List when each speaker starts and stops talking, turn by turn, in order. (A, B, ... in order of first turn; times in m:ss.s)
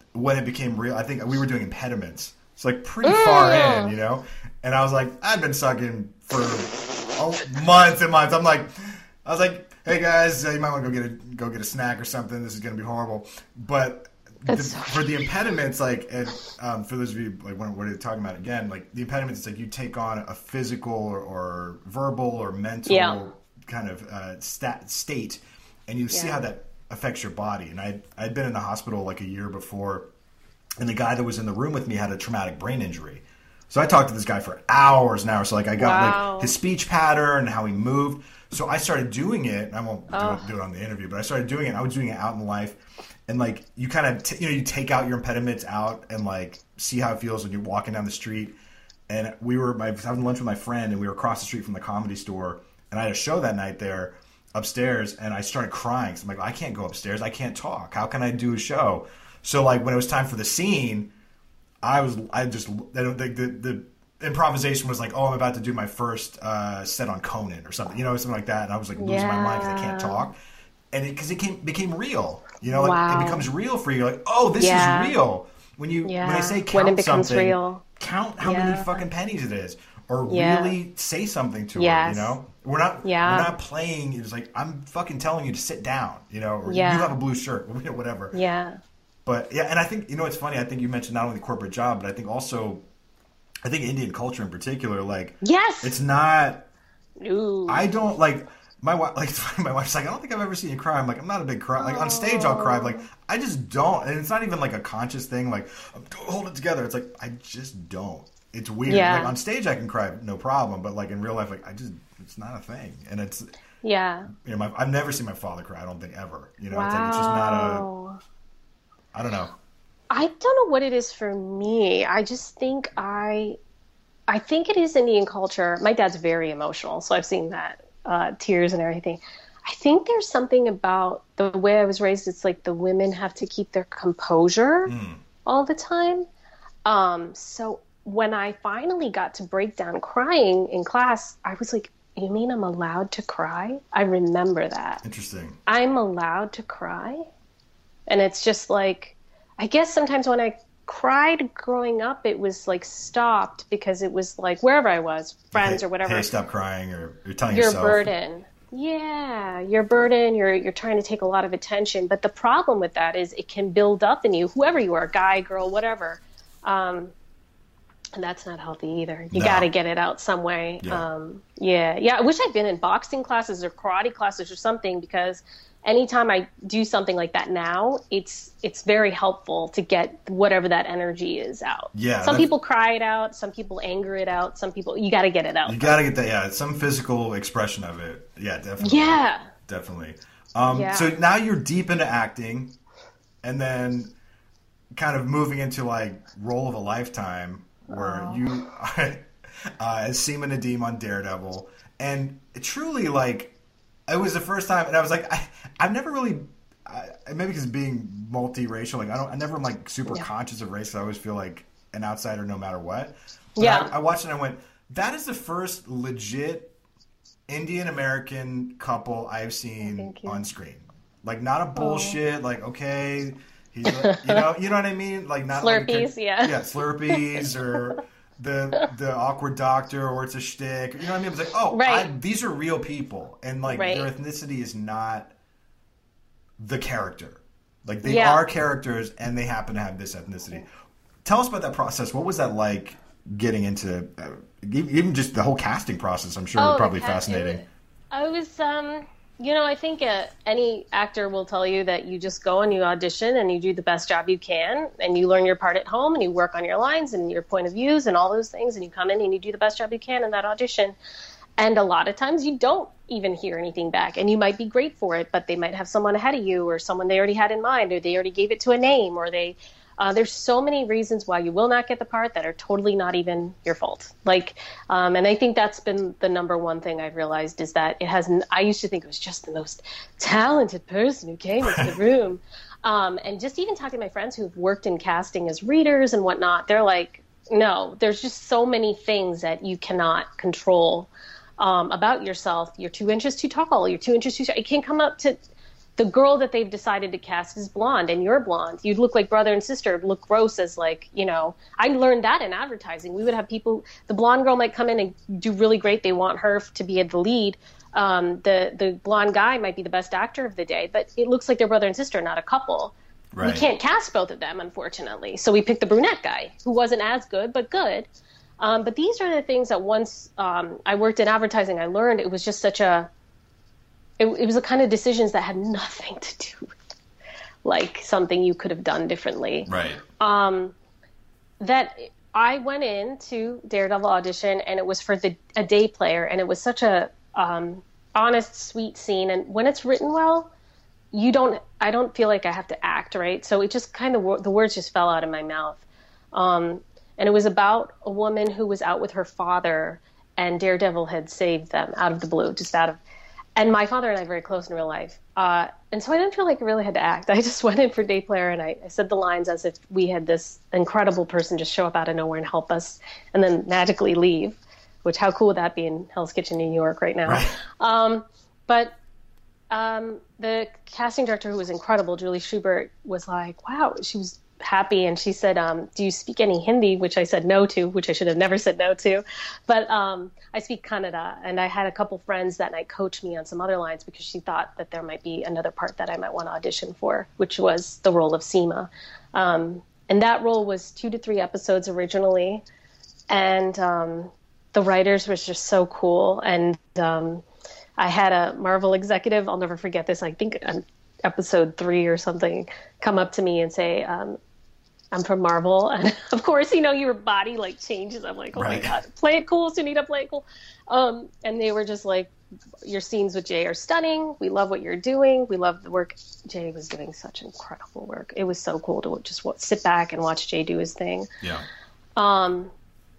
0:00.1-0:30.1 A
0:03.0-0:03.9 B
0:14.5-0:15.3 B
0:22.9-0:23.2 B
0:26.1-0:26.4 B
0:30.8-0:48.6 A
0:35.8-0:36.5 B
0:40.1-0:40.5 B
0:49.1-1:01.1 A
1:01.8-1:10.4 A
1:09.0-1:10.2 B
1:10.9-1:28.4 A
1:12.7-1:13.4 B
1:14.6-1:15.2 B
1:16.0-1:17.8 B
1:18.4-1:19.0 B
1:20.3-1:20.8 B
1:21.8-1:22.4 B
1:23.0-1:23.5 B
1:26.7-1:27.1 B
1:28.3-1:28.8 B
1:29.3-1:32.8 A
1:33.6-1:36.7 A
1:35.4-1:35.9 B
1:37.2-1:37.9 B
1:37.7-1:53.5 A
1:41.8-1:43.1 B
1:48.9-1:49.3 B
1:53.8-1:54.3 B
1:54.3-1:57.9 A
1:56.7-1:58.2 B
1:59.1-1:59.5 A
2:00.1-2:03.6 B
2:04.3-2:14.9 B
2:14.9-2:15.2 A
2:15.4-2:16.3 B
2:16.8-2:25.0 B
2:25.0-2:25.6 A
2:25.7-2:27.3 B
2:28.1-2:36.3 B
2:35.5-2:38.1 A
2:37.5-2:47.1 B
2:48.2-3:06.0 B
2:49.3-2:49.7 A
3:01.9-3:02.5 A
3:05.7-3:12.7 A
3:08.8-3:09.5 B
3:10.7-3:11.1 B
3:13.4-3:14.1 A
3:14.9-3:23.5 A
3:17.9-3:18.4 B
3:24.1-3:36.7 A
3:33.6-3:33.9 B
3:37.5-3:55.3 A
3:39.8-3:40.4 B
3:41.8-3:42.2 B
3:43.9-3:44.4 B
3:45.5-3:46.6 B
3:47.1-3:47.5 B
3:51.7-3:52.1 B
3:53.7-3:54.1 B
3:56.6-4:00.7 A
3:58.0-3:58.4 B
4:01.2-4:07.6 A
4:06.6-4:21.0 B
4:21.6-4:55.4 B
4:56.0-5:18.1 B
5:13.3-5:13.7 A
5:18.6-5:23.1 B
5:24.2-5:26.7 B
5:27.6-5:30.7 B
5:29.7-5:30.0 A
5:31.6-5:40.5 B
5:41.1-5:53.0 B
5:53.6-6:09.0 B
6:07.3-6:07.6 A
6:09.7-6:32.6 B
6:33.3-6:37.4 B
6:38.0-6:44.4 B
6:45.1-6:52.3 B
6:48.5-6:49.0 A
6:52.8-7:01.3 B
7:01.4-7:01.7 A
7:02.2-7:02.7 B